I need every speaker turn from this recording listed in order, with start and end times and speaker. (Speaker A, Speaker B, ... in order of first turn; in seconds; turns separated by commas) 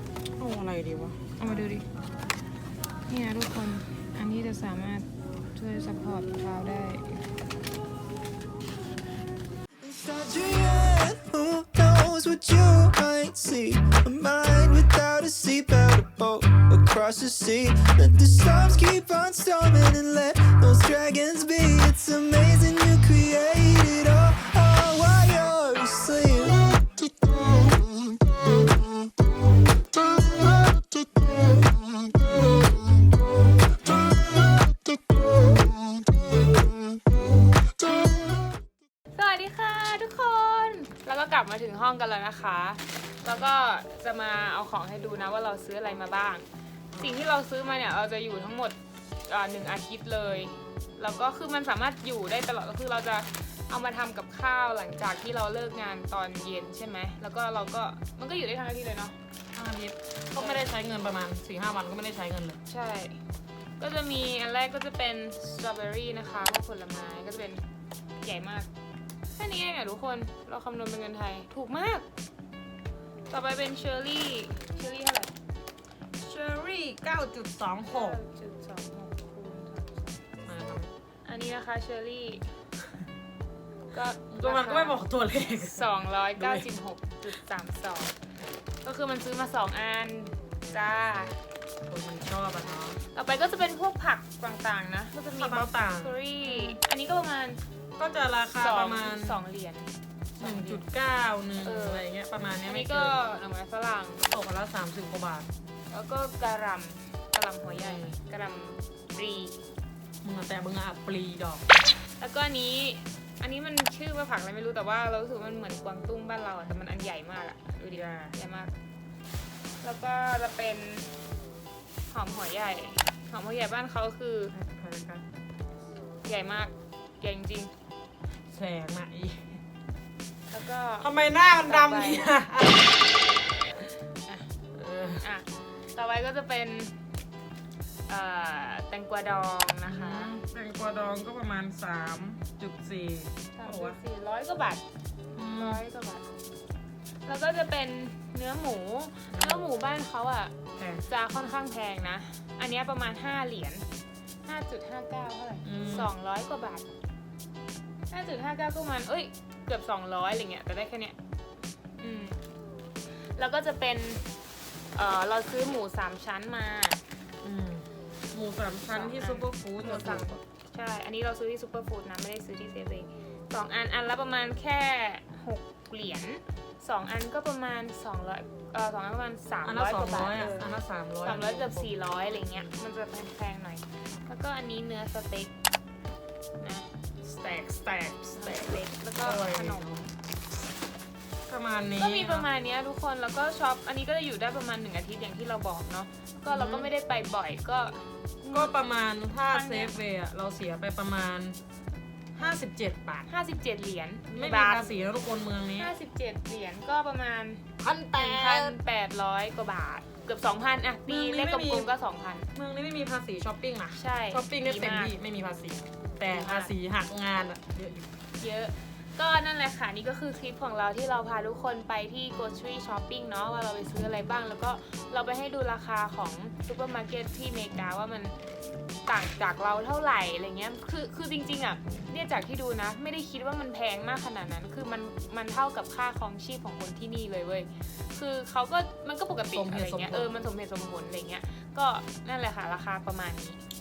Speaker A: 0.4-1.3, Speaker B: 1.4-1.8, Speaker B: 3.1-7.2, Speaker C: 9.8-26.9, Speaker B: 39.1-48.8, Speaker B: 49.3-59.1, Speaker A: 50.3-50.6, Speaker A: 59.5-62.6, Speaker B: 60.3-60.6, Speaker B: 62.6-63.2, Speaker B: 63.8-67.6, Speaker B: 68.2-68.7, Speaker B: 69.3-72.0, Speaker B: 73.3-75.3, Speaker A: 76.2-78.2, Speaker B: 77.9-80.3, Speaker A: 80.5-80.9, Speaker B: 81.2-82.5, Speaker B: 83.9-85.0, Speaker A: 84.3-86.6, Speaker B: 85.5-88.1, Speaker B: 88.8-91.4, Speaker A: 91.9-93.0, Speaker B: 93.1-97.6, Speaker A: 95.4-96.8, Speaker A: 98.0-99.4, Speaker B: 98.6-100.8, Speaker A: 100.4-103.2, Speaker B: 101.6-102.1, Speaker B: 102.6-104.2, Speaker A: 104.2-105.5, Speaker B: 105.9-109.6, Speaker A: 107.7-108.2, Speaker A: 110.2-111.7, Speaker B: 112.2-118.7, Speaker A: 117.9-118.3, Speaker B: 119.8-121.1, Speaker B: 122.1-124.5, Speaker A: 124.5-125.2, Speaker B: 126.2-127.7, Speaker A: 128.5-129.6, Speaker B: 130.5-132.3, Speaker A: 131.0-132.9, Speaker A: 134.7-135.2, Speaker B: 135.2-136.9, Speaker B: 138.1-140.4, Speaker A: 139.8-144.0, Speaker B: 143.6-144.8, Speaker A: 145.3-145.8, Speaker B: 145.5-146.2, Speaker B: 147.2-150.5, Speaker A: 149.3-149.7, Speaker A: 150.8-151.1, Speaker B: 151.1-153.8, Speaker B: 154.4-156.8, Speaker A: 155.6-156.1, Speaker B: 158.1-161.2, Speaker B: 162.0-162.4, Speaker B: 163.3-164.2, Speaker B: 164.9-167.0, Speaker A: 167.4-170.4, Speaker B: 168.8-180.7, Speaker A: 179.6-182.8, Speaker B: 181.2-185.5, Speaker B: 186.6-186.9, Speaker A: 187.2-190.1, Speaker B: 188.4-189.9, Speaker A: 191.5-192.5, Speaker B: 192.0-198.8, Speaker A: 196.5-196.9, Speaker A: 198.5-201.6, Speaker B: 199.5-199.9, Speaker A: 202.4-203.3, Speaker B: 203.3-205.1, Speaker A: 204.3-205.9, Speaker B: 205.8-212.5, Speaker A: 207.8-208.8, Speaker A: 211.1-211.9, Speaker A: 212.5-218.1, Speaker B: 213.9-215.1, Speaker B: 216.3-216.7, Speaker B: 218.4-228.3, Speaker B: 229.1-243.6, Speaker A: 239.5-240.3